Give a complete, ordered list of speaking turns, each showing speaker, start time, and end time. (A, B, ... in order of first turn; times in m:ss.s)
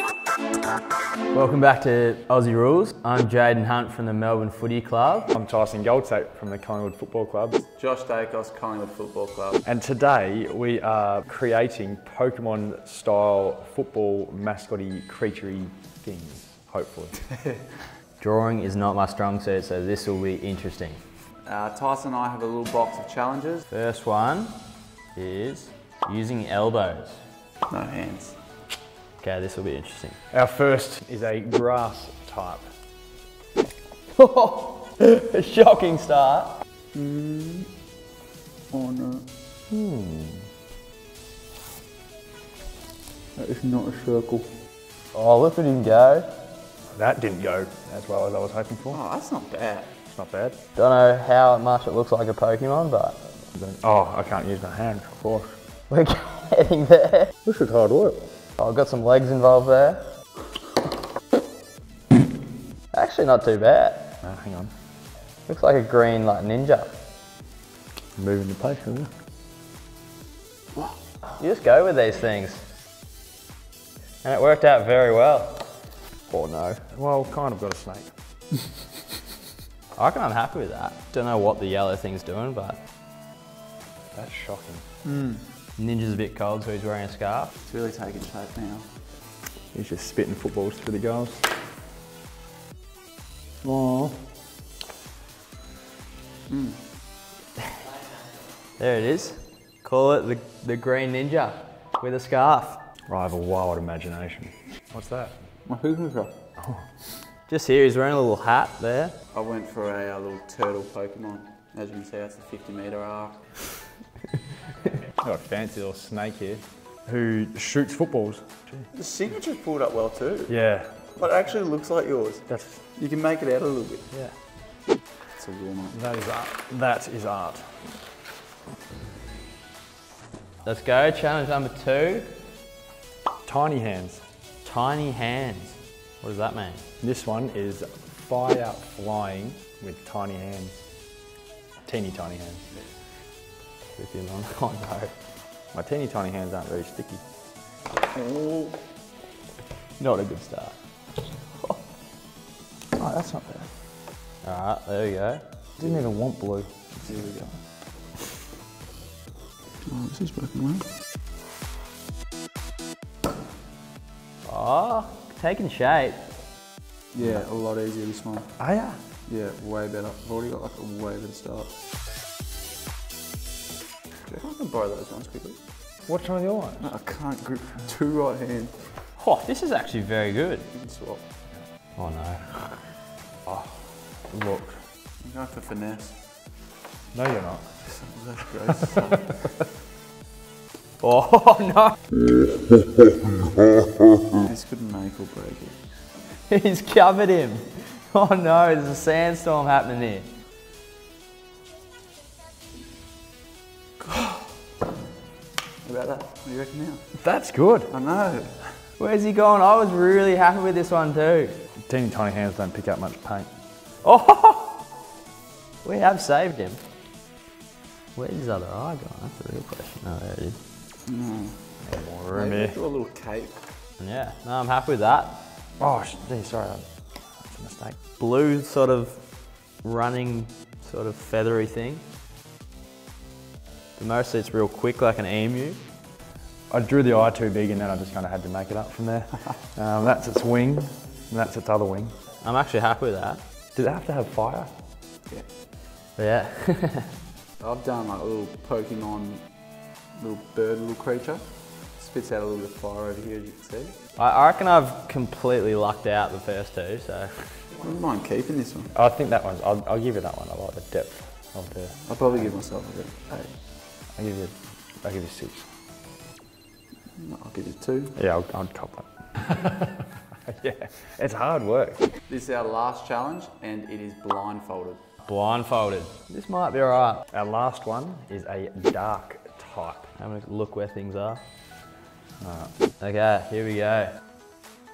0:01.3-0:05.3 A
0:05.3-0:07.6 B
0:07.7-0:09.6 C
0:09.7-0:17.2 B
0:18.2-0:21.0 A
0:21.5-0:23.7 C
0:23.7-0:24.6 A
0:25.2-0:27.2 A
0:27.7-0:28.4 C
0:29.2-0:30.2 A
0:30.3-0:32.7 B
0:34.2-0:36.5 A
0:36.9-0:37.7 C
0:38.7-0:39.3 C
0:39.7-0:40.5 B
0:43.4-0:44.5 C
0:45.1-0:46.3 A
0:47.0-0:49.0 B
0:48.9-0:49.9 C
0:50.1-0:50.6 B
0:50.8-0:53.2 A
0:53.5-0:55.5 B
0:55.9-0:57.4 A
0:57.4-0:58.2 B
0:58.6-1:00.0 A
1:02.9-1:04.2 A
1:04.2-1:04.7 B
1:05.5-1:06.9 A
1:08.2-1:09.1 B
1:11.4-1:12.6 A
1:14.2-1:15.6 A
1:16.3-1:16.8 A
1:16.9-1:18.1 B
1:20.0-1:22.8 A
1:24.1-1:24.8 B
1:25.0-1:25.4 C
1:25.8-1:27.5 A
1:27.7-1:28.8 C
1:29.7-1:31.4 B
1:33.6-1:34.2 B
1:36.5-1:36.8 C
1:38.8-1:42.8 A
1:43.1-1:45.4 B
1:45.7-1:46.3 C
1:46.6-1:46.9 B
1:47.5-1:49.2 A
1:49.3-1:53.6 C
1:55.2-1:58.9 B
1:58.9-2:00.6 C
2:00.5-2:01.0 B
2:01.2-2:04.1 C
2:02.5-2:02.8 B
2:04.1-2:04.4 B
2:05.3-2:06.0 C
2:05.9-2:08.0 B
2:10.6-2:12.3 A
2:13.4-2:14.2 B
2:14.6-2:16.8 A
2:17.0-2:20.8 B
2:21.9-2:22.7 B
2:24.0-2:25.1 A
2:25.7-2:27.2 B
2:28.1-2:28.8 C
2:30.0-2:30.8 A
2:32.9-2:33.7 B
2:34.4-2:35.4 A
2:35.8-2:37.5 B
2:37.1-2:37.5 C
2:39.9-2:40.9 C
2:44.4-2:46.2 A
2:47.1-2:48.5 C
2:48.6-2:49.0 B
2:49.3-2:51.7 C
2:54.3-2:55.6 C
2:56.1-2:56.9 B
2:56.8-2:58.8 C
2:59.2-3:00.7 A
3:00.7-3:01.2 C
3:02.0-3:02.8 A
3:03.5-3:04.8 B
3:05.2-3:06.2 C
3:07.1-3:07.8 B
3:07.8-3:09.4 C
3:11.0-3:12.0 A
3:14.4-3:15.8 C
3:16.5-3:20.3 A
3:24.0-3:24.4 C
3:25.8-3:27.0 C
3:27.2-3:27.9 B
3:27.9-3:28.7 C
3:29.0-3:31.6 A
3:31.9-3:33.5 B
3:34.0-3:34.8 A
3:35.8-3:36.8 A
3:38.2-3:40.6 A
3:41.1-3:41.6 C
3:41.8-3:42.8 B
3:42.3-3:43.6 C
3:44.0-3:45.4 A
3:45.8-3:48.0 B
3:48.2-3:49.2 A
3:49.8-3:52.0 A
3:54.0-3:55.8 A
3:56.7-4:02.1 B
4:02.4-4:03.4 A
4:03.8-4:04.7 B
4:06.2-4:07.1 A
4:07.6-4:09.4 C
4:10.2-4:11.4 C
4:12.0-4:14.0 C
4:14.2-4:17.3 A
4:17.8-4:18.9 C
4:18.9-4:22.1 B
4:22.1-4:23.5 C
4:24.2-4:25.7 B
4:27.2-4:28.1 C
4:28.2-4:32.1 B
4:32.3-4:35.0 C
4:35.2-4:37.2 A
4:37.3-4:40.1 B
4:40.2-4:41.4 A
4:42.4-4:42.7 B
4:43.0-4:44.1 A